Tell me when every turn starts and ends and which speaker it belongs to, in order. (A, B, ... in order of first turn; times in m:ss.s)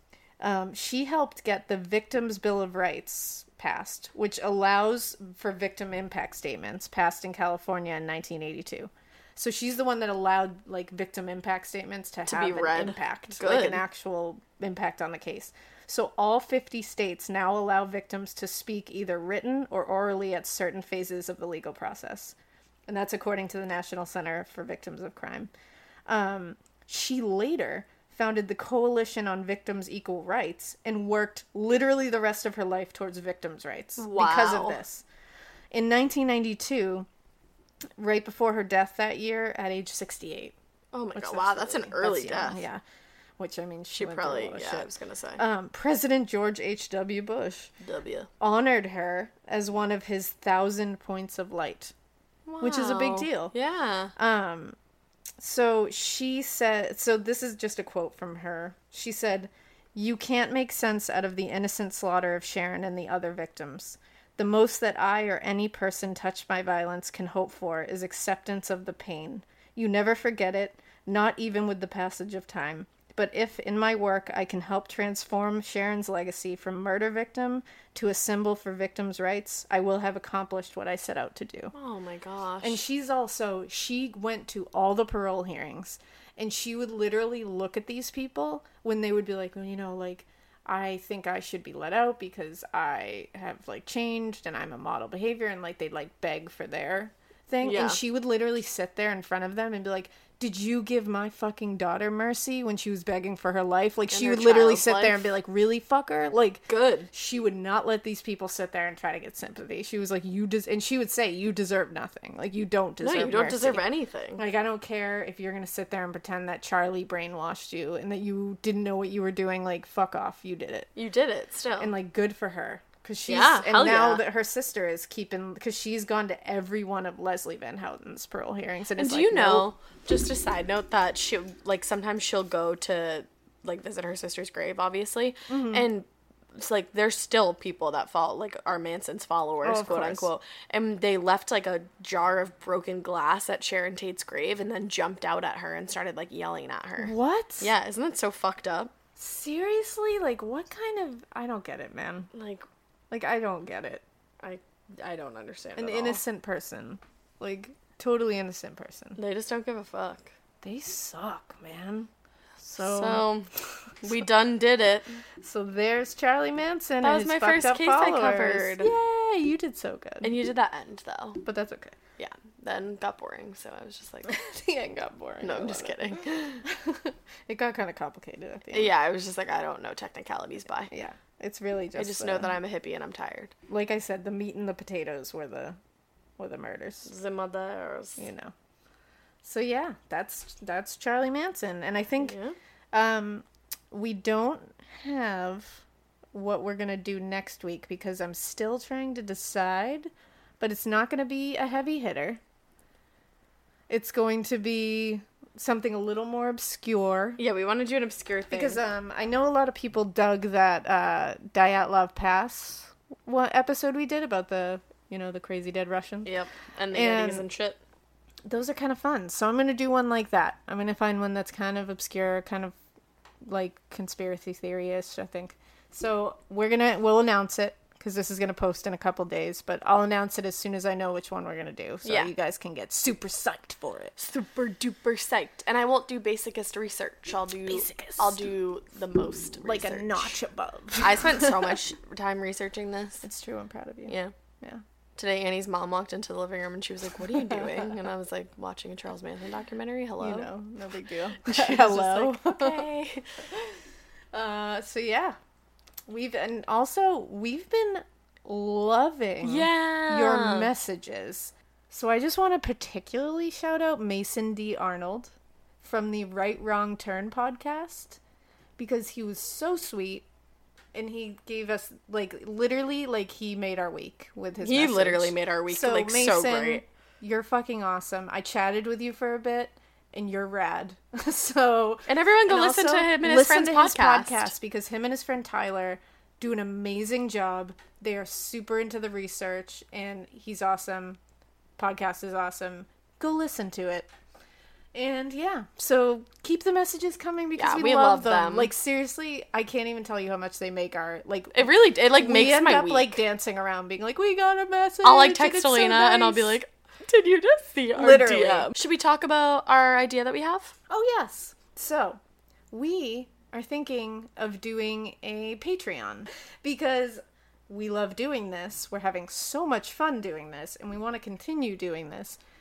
0:00.4-0:22.3 A
0:12.2-0:13.8 B
0:22.9-0:25.5 A
0:26.1-0:35.0 A
0:34.0-0:34.8 B
0:35.7-0:37.1 A
0:38.0-0:40.5 A
0:40.9-0:42.6 B
0:41.1-0:42.8 A
0:43.4-0:47.7 A
0:43.9-0:45.4 B
0:47.8-0:48.3 B
0:48.4-0:51.9 A
0:52.5-0:54.1 B
0:52.6-0:53.5 A
0:54.2-0:54.8 A
0:55.4-1:21.7 A
1:21.7-1:22.8 B
1:22.6-1:53.8 A
1:37.6-1:38.0 B
1:44.1-1:45.4 B
1:46.7-1:47.1 B
1:53.0-1:54.4 B
1:54.4-2:00.9 A
2:01.0-2:01.9 B
2:01.8-2:09.7 A
2:03.2-2:04.2 B
2:08.9-2:28.9 B
2:15.5-2:15.9 A
2:19.6-2:20.3 A
2:27.0-2:27.7 A
2:29.2-2:32.3 A
2:32.3-2:32.6 B
2:33.1-2:34.0 A
2:34.4-2:36.2 B
2:35.8-2:39.2 A
2:39.2-2:40.3 B
2:40.6-2:42.1 A
2:42.6-2:43.2 A
2:42.8-2:43.5 B
2:44.0-2:45.2 B
2:45.4-2:50.3 A
2:47.0-2:48.9 B
2:50.2-2:51.4 B
2:51.4-2:52.0 A
2:52.2-2:54.4 B
2:54.3-2:58.9 A
2:55.4-2:56.6 B
2:58.7-3:00.9 B
3:00.9-3:02.6 A
3:02.0-3:03.5 B
3:03.7-3:05.8 A
3:06.4-3:07.1 A
3:07.0-3:08.3 B
3:08.2-3:08.5 A
3:09.4-3:12.3 A
3:12.2-3:12.6 B
3:12.9-3:22.4 A
3:23.9-3:27.4 A
3:27.4-3:28.8 B
3:28.5-3:36.3 A
3:36.2-3:37.8 B
3:36.9-3:37.4 A
3:38.4-3:42.8 A
3:43.4-3:54.1 A
3:52.0-3:52.3 B
3:54.2-4:00.4 B
3:57.7-3:58.5 A
3:59.6-4:01.7 A
4:00.9-4:03.2 B
4:03.2-4:04.8 A
4:05.2-4:10.5 B
4:07.5-4:07.7 A
4:10.2-4:12.8 A
4:11.4-4:13.2 B
4:14.3-4:15.4 A
4:16.1-4:28.2 A
4:19.4-4:20.7 B
4:28.8-4:30.2 A
4:30.9-4:51.2 A
4:34.6-4:36.8 B
4:42.1-4:44.5 B
4:51.8-4:54.1 A
4:54.9-5:06.6 A
4:57.6-4:58.7 B
5:01.5-5:03.2 B
5:05.0-5:10.7 B
5:08.0-5:08.7 A
5:10.9-5:12.2 A
5:12.7-5:22.4 A